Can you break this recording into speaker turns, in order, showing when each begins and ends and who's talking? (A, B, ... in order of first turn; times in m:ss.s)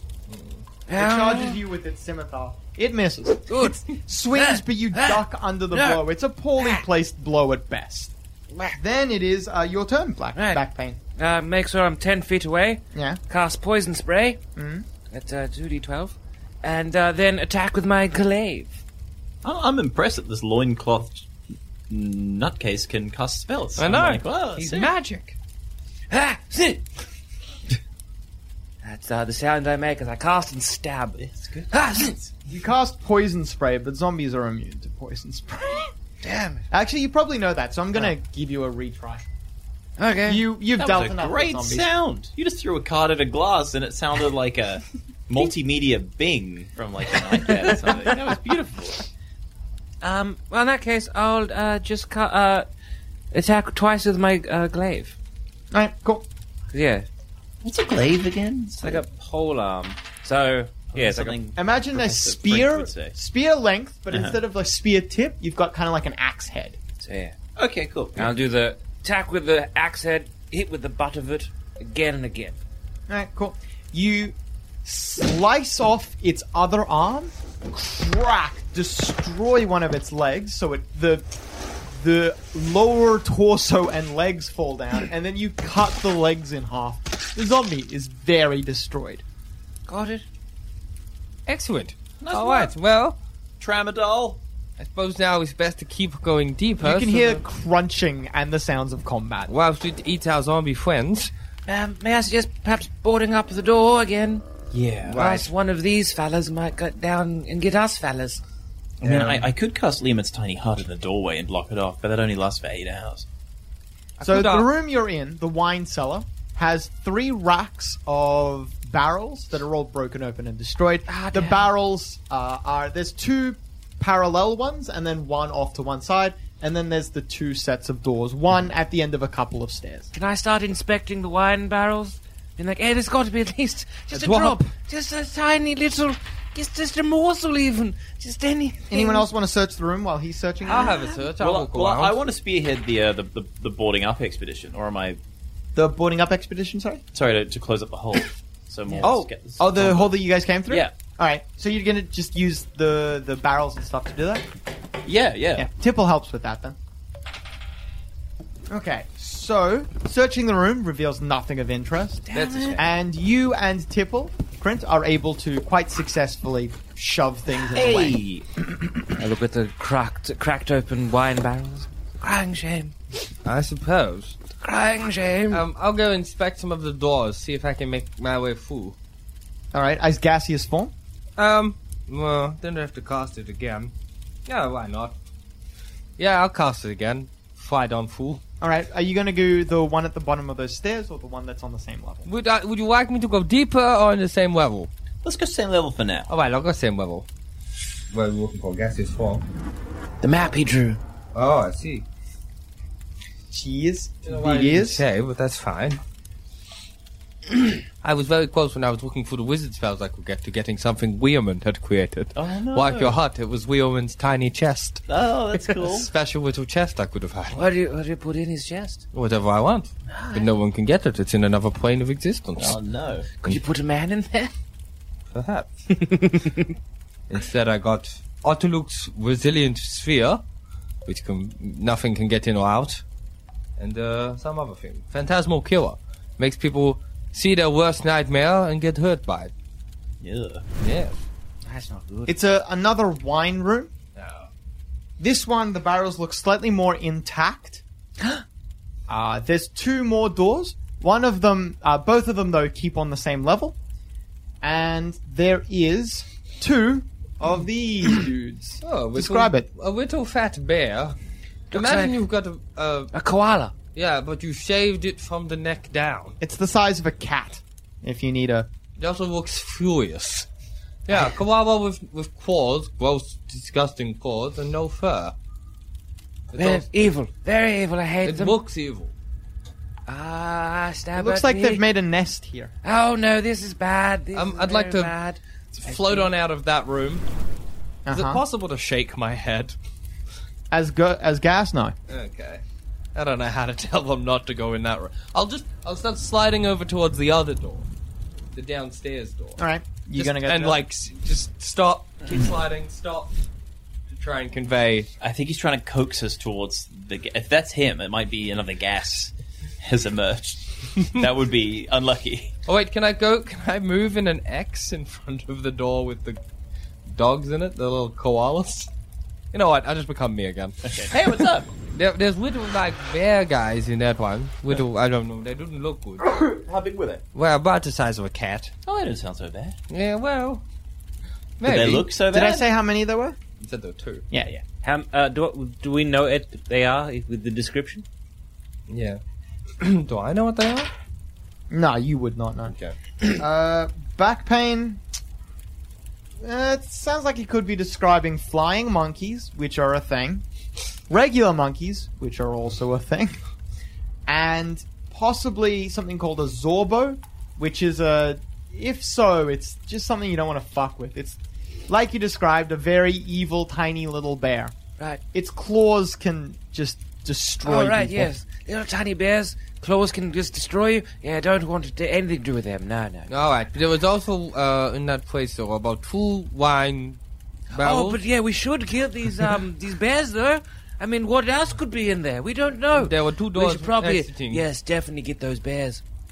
0:00.3-0:00.6 A
0:00.9-0:01.6 B
0:00.9-0:08.1 C
0:03.5-0:06.0 B
0:08.5-0:08.8 B
0:08.7-0:11.0 C
0:10.3-0:10.6 B
0:11.2-0:14.4 B
0:12.9-0:13.2 C
0:14.6-0:14.8 C
0:15.1-0:18.8 B
0:19.4-0:21.3 D
0:21.9-0:24.9 D
0:23.8-0:25.4 A
0:26.1-0:26.8 B
0:28.8-0:32.2 B
0:31.2-0:32.3 D
0:32.4-0:35.9 C
0:36.2-0:36.6 B
0:36.7-0:39.2 C
0:40.0-0:40.4 B
0:40.2-0:41.9 C
0:40.8-0:49.1 D
0:47.4-0:48.1 B
0:50.0-0:52.7 B
0:53.3-0:55.2 B
0:55.7-0:56.2 C
0:56.7-0:57.1 B
0:57.6-0:59.0 D
0:58.8-1:01.5 B
1:00.9-1:03.2 D
1:01.6-1:06.8 C
1:04.1-1:04.4 D
1:07.0-1:07.4 B
1:07.6-1:08.3 D
1:08.2-1:12.6 B
1:13.1-1:21.2 C
1:21.8-1:29.2 C
1:29.9-1:30.2 B
1:31.5-1:33.2 A
1:32.2-1:32.7 D
1:33.6-1:34.4 D
1:34.8-1:37.4 A
1:36.8-1:39.5 C
1:39.5-1:41.3 A
1:41.7-1:44.4 B
1:44.7-1:45.2 D
1:45.1-1:48.4 B
1:45.1-1:45.5 A
1:49.0-1:53.2 D
1:49.0-1:49.5 A
1:54.2-1:54.7 A
1:54.2-2:10.1 C
2:01.1-2:01.6 B
2:10.1-2:19.3 B
2:14.1-2:14.6 C
2:18.9-2:21.0 C
2:20.6-2:22.2 A
2:21.4-2:25.2 D
2:25.7-2:27.0 C
2:27.1-2:30.9 D
2:29.0-2:34.5 C
2:35.0-2:35.7 D
2:35.6-2:36.8 C
2:38.7-2:48.2 C
2:42.3-2:42.8 B
2:42.3-2:42.8 A
2:47.7-2:48.5 D
2:49.1-2:53.0 B
2:53.4-2:54.4 A
2:54.6-2:55.6 B
2:55.5-2:59.0 A
2:59.7-3:00.9 C
3:01.4-3:03.9 A
3:04.5-3:05.1 A
3:06.2-3:08.4 A
3:08.6-3:12.2 C
3:12.2-3:14.9 A
3:15.2-3:16.3 D
3:16.3-3:17.3 A
3:18.1-3:19.4 A
3:20.2-3:21.0 B
3:21.3-3:22.0 A
3:23.5-3:25.0 C
3:24.2-3:26.0 A
3:28.0-3:35.0 A
3:32.4-3:33.2 D
3:35.1-3:36.1 D
3:35.8-3:37.6 A
3:37.5-3:39.0 B
3:39.1-3:42.8 A
3:40.1-3:40.5 B
3:42.6-3:43.3 D
3:43.4-3:44.5 B
3:45.3-3:45.8 A
3:45.9-3:46.7 B
3:47.3-3:50.4 A
3:51.0-3:53.0 A
3:53.8-3:59.5 A
4:00.2-4:00.6 D
4:00.8-4:01.2 A
4:01.6-4:02.3 B
4:02.3-4:03.9 C
4:04.2-4:04.5 A
4:05.2-4:07.8 C
4:09.1-4:13.8 C
4:14.6-4:19.7 C
4:18.8-4:21.2 A
4:21.7-4:22.2 B
4:21.7-4:23.1 A
4:23.1-4:23.7 B
4:23.9-4:26.4 A
4:26.4-4:28.7 C
4:29.0-4:30.5 A
4:31.1-4:35.3 A
4:36.5-4:37.0 A
4:36.5-4:38.6 B
4:38.2-4:39.1 A
4:40.1-4:41.8 B
4:41.2-4:42.7 C
4:42.8-4:46.3 B
4:44.3-4:45.1 A
4:45.7-4:47.2 A
4:48.0-4:48.4 C
4:48.1-4:49.7 A
4:50.7-4:51.9 C
4:52.1-4:52.6 A
4:53.1-4:57.9 A
4:58.5-4:59.6 A
4:59.6-5:00.8 C
5:00.1-5:03.4 A
5:04.1-5:05.1 A
5:05.2-5:12.5 D
5:12.6-5:16.4 A
5:17.1-5:18.9 A
5:19.5-5:20.9 A
5:20.8-5:21.7 D
5:21.9-5:26.2 A
5:26.2-5:27.2 D
5:27.3-5:28.7 A
5:28.8-5:29.8 D
5:29.9-5:30.6 A
5:31.6-5:32.1 A
5:31.6-5:32.7 D
5:32.3-5:33.4 C
5:33.6-5:34.2 A
5:34.3-5:34.6 C
5:34.8-5:38.0 B
5:38.9-5:39.2 A
5:39.8-5:40.9 A
5:41.7-5:45.0 C
5:42.7-5:43.0 A
5:46.4-5:50.4 C
5:51.1-5:53.4 C
5:54.3-6:04.7 C
6:05.3-6:08.3 C
6:07.6-6:13.3 B
6:13.3-6:17.2 A
6:17.7-6:18.2 A
6:17.8-6:26.0 B
6:22.9-6:24.6 A